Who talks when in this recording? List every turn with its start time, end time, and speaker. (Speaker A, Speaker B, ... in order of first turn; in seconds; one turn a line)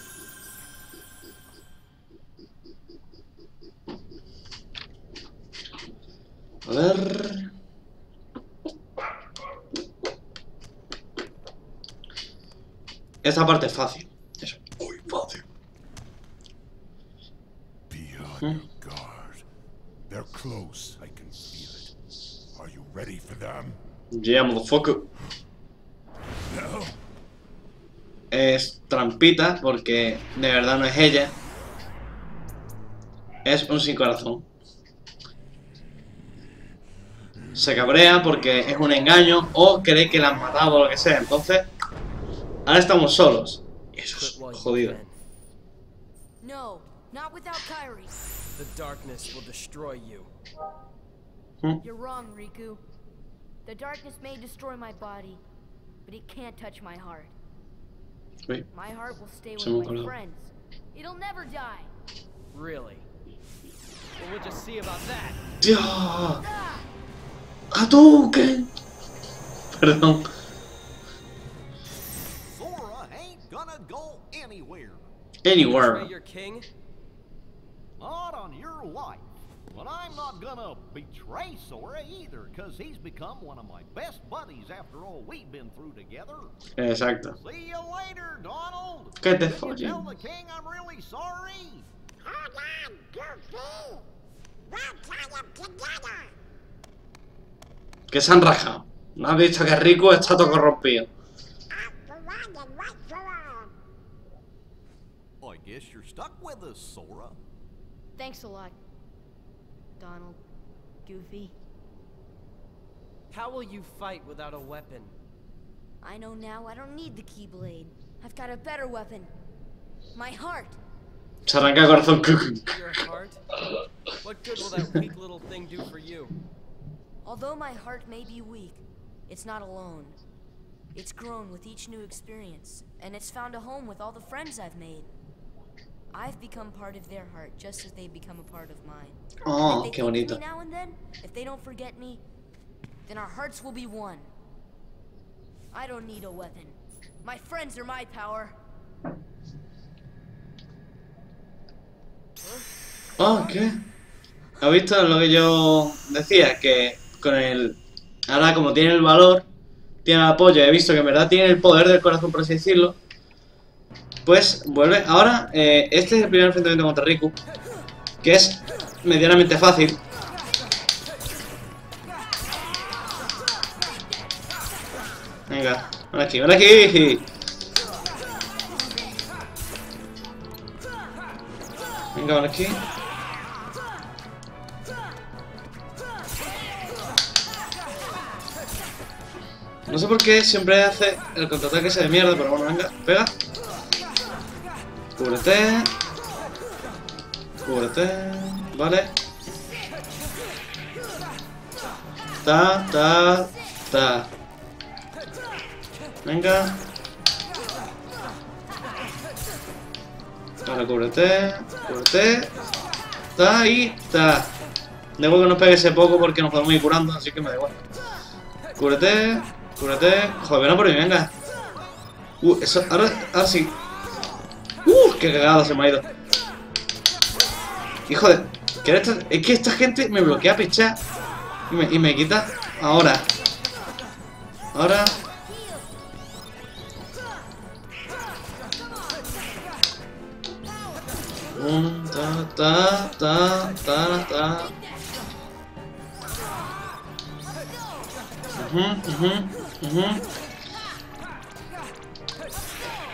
Speaker A: 6.7-7.5
Speaker A: 13.2-15.4
Speaker B: 17.9-19.4
Speaker B: 20.1-21.9
Speaker B: 22.6-23.8
Speaker A: 24.1-25.1
Speaker B: 26.5-27.0
Speaker A: 28.3-31.4
Speaker A: 33.5-34.5
Speaker A: 37.5-41.7
Speaker A: 42.7-45.0
Speaker C: 44.1-45.1
Speaker D: 46.4-48.2
Speaker C: 48.6-50.3
Speaker D: 51.8-52.8
Speaker D: 53.6-55.4
Speaker D: 56.1-57.3
Speaker D: 58.7-61.9
Speaker A: 59.6-60.1
Speaker C: 62.5-63.1
Speaker C: 64.2-65.4
Speaker A: 65.6-66.4
Speaker D: 66.4-66.9
Speaker A: 67.7-68.7
Speaker A: 69.7-70.3
Speaker E: 72.5-75.0
Speaker A: 75.4-76.1
Speaker C: 75.5-76.7
Speaker E: 78.0-86.5
Speaker A: 86.8-87.4
Speaker E: 87.4-91.9
Speaker A: 89.2-90.0
Speaker F: 92.2-94.0
Speaker F: 94.7-96.3
Speaker A: 98.1-101.1
Speaker F: 100.0-100.7
Speaker F: 101.7-103.7
Speaker E: 105.4-107.4
Speaker D: 108.2-108.8
Speaker D: 110.0-110.4
Speaker D: 111.0-111.5
Speaker C: 113.3-115.1
Speaker D: 116.0-119.3
Speaker D: 120.1-120.8
Speaker A: 121.5-122.8
Speaker C: 122.7-123.4
Speaker C: 124.2-126.3
Speaker D: 127.2-130.2
Speaker D: 130.9-135.1
Speaker D: 136.1-142.2
Speaker A: 139.4-140.4
Speaker D: 143.1-144.3
Speaker D: 145.7-148.6
Speaker A: 153.2-153.8
Speaker A: 154.6-159.5
Speaker A: 160.1-163.0
Speaker A: 164.2-167.4
Speaker A: 168.2-170.0
Speaker A: 175.5-177.2
Speaker A: 182.1-182.9
Speaker A: 189.9-193.3
Speaker A: 195.2-195.9
Speaker A: 197.6-199.1
Speaker A: 202.4-204.3
Speaker A: 206.2-206.8
Speaker A: 210.7-212.5
Speaker A: 213.4-214.6
Speaker A: 215.2-217.8
Speaker A: 218.8-221.3
Speaker A: 222.4-223.8
Speaker A: 224.8-226.1
Speaker A: 228.1-231.0
Speaker A: 231.7-233.3
Speaker A: 234.7-235.2
Speaker D: 235.5-235.8
Speaker A: 241.5-244.7
Speaker D: 244.7-245.2
Speaker A: 248.5-250.3